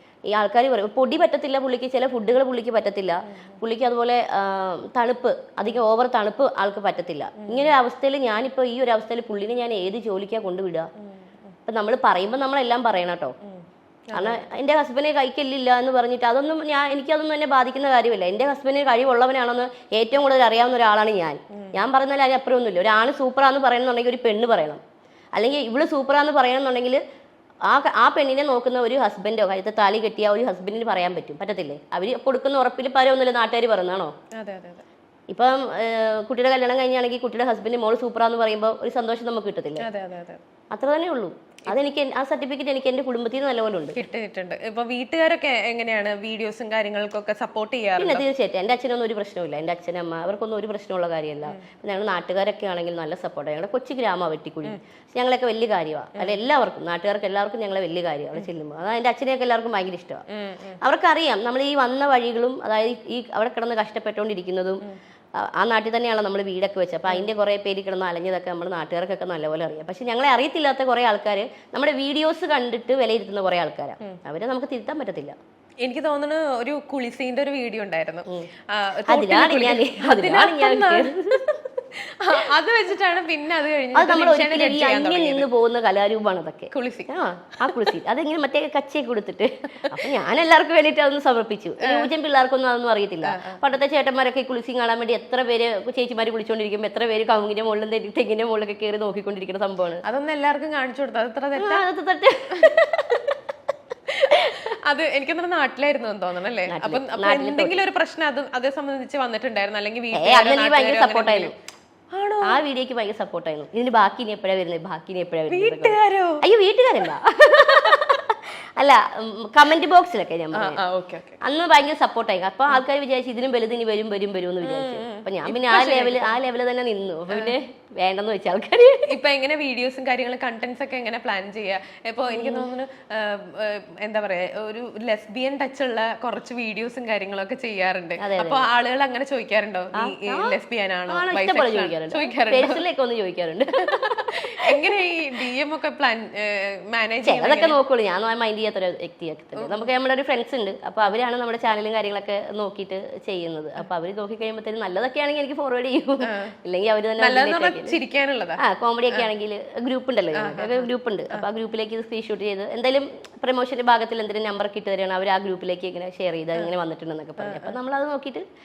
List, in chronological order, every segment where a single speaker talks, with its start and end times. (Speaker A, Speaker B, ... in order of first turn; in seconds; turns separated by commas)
Speaker A: 0.3-10.9, Speaker B: 7.4-7.7, Speaker A: 11.7-13.3, Speaker B: 13.4-14.4, Speaker A: 14.1-24.8, Speaker A: 25.4-27.0, Speaker A: 27.6-34.1, Speaker B: 34.4-34.9, Speaker A: 35.3-39.8, Speaker B: 39.8-40.4, Speaker A: 40.7-44.0, Speaker B: 43.9-48.2, Speaker A: 48.0-60.2, Speaker B: 60.3-60.8, Speaker A: 60.8-64.8, Speaker A: 65.4-75.3, Speaker B: 75.8-85.5, Speaker A: 79.1-81.5, Speaker A: 83.9-100.0, Speaker B: 86.7-87.1, Speaker B: 89.8-90.1, Speaker B: 91.8-92.1, Speaker B: 93.2-93.6, Speaker B: 100.0-101.9, Speaker A: 101.6-103.3, Speaker B: 102.5-102.8, Speaker B: 104.1-111.5, Speaker A: 104.3-104.6, Speaker A: 106.7-107.8, Speaker A: 110.1-111.5, Speaker B: 112.1-112.6, Speaker A: 112.4-120.8, Speaker B: 115.5-116.4, Speaker B: 120.5-121.4, Speaker A: 121.4-129.1, Speaker B: 124.6-126.3, Speaker B: 129.1-142.8, Speaker A: 132.3-132.7, Speaker A: 138.2-138.7, Speaker A: 139.9-140.5, Speaker A: 141.1-144.8, Speaker B: 144.3-147.8, Speaker A: 147.2-157.9, Speaker B: 149.6-149.9, Speaker B: 156.2-156.5, Speaker B: 157.2-159.3, Speaker A: 158.6-168.4, Speaker B: 160.3-161.4, Speaker B: 167.4-167.8